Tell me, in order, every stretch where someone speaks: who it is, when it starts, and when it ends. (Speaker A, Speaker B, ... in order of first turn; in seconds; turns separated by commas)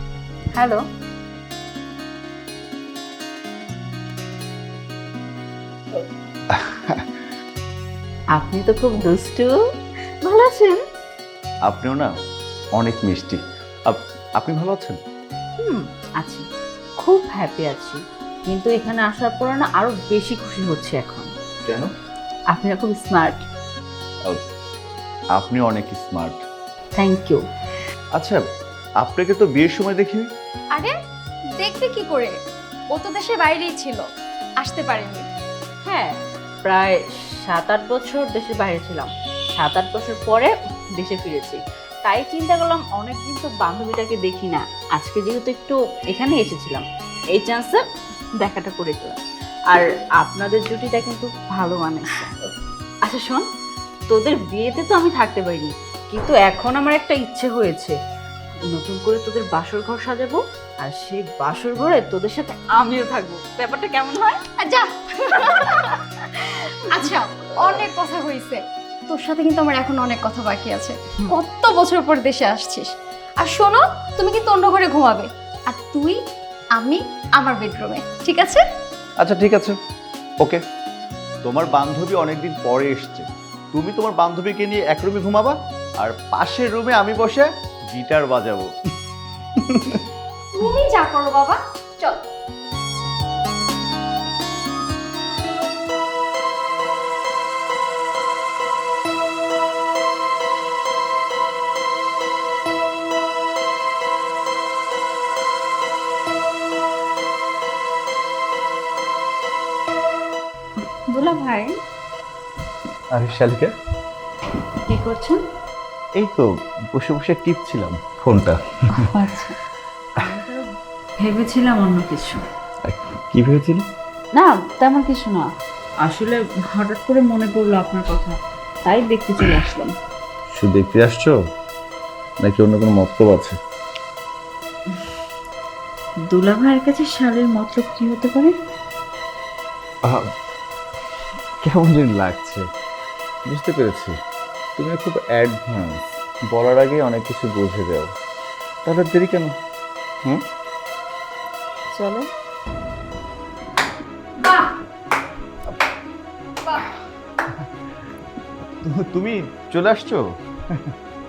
Speaker A: 0.5-0.8, Speaker B: 6.5-7.1, Speaker A: 8.3-9.5, Speaker A: 10.2-10.8, Speaker B: 11.7-12.1, Speaker B: 12.8-15.0, Speaker A: 15.6-16.4, Speaker A: 17.0-21.3, Speaker A: 22.5-23.4, Speaker B: 25.4-26.4, Speaker A: 26.9-27.4, Speaker B: 29.0-30.3, Speaker C: 31.6-32.3, Speaker C: 32.9-34.0, Speaker C: 34.6-35.2, Speaker A: 35.9-47.8, Speaker A: 48.4-52.4, Speaker A: 53.0-53.4, Speaker A: 54.1-58.0, Speaker A: 58.7-64.4, Speaker C: 64.6-76.2, Speaker C: 76.8-78.6, Speaker B: 79.2-79.8, Speaker B: 81.4-88.7, Speaker B: 89.6-90.0, Speaker C: 90.5-92.2, Speaker A: 110.9-111.8, Speaker B: 113.1-113.7, Speaker A: 114.9-115.4, Speaker B: 116.2-118.6, Speaker A: 119.0-119.6, Speaker A: 120.1-122.4, Speaker B: 122.8-123.8, Speaker A: 124.3-125.5, Speaker A: 126.0-129.9, Speaker B: 130.5-131.4, Speaker B: 132.4-133.6, Speaker A: 136.3-138.5, Speaker B: 141.6-142.7, Speaker B: 143.5-144.2, Speaker B: 144.8-148.1, Speaker B: 148.8-149.5, Speaker A: 151.9-152.3, Speaker C: 154.4-154.7, Speaker B: 158.8-160.2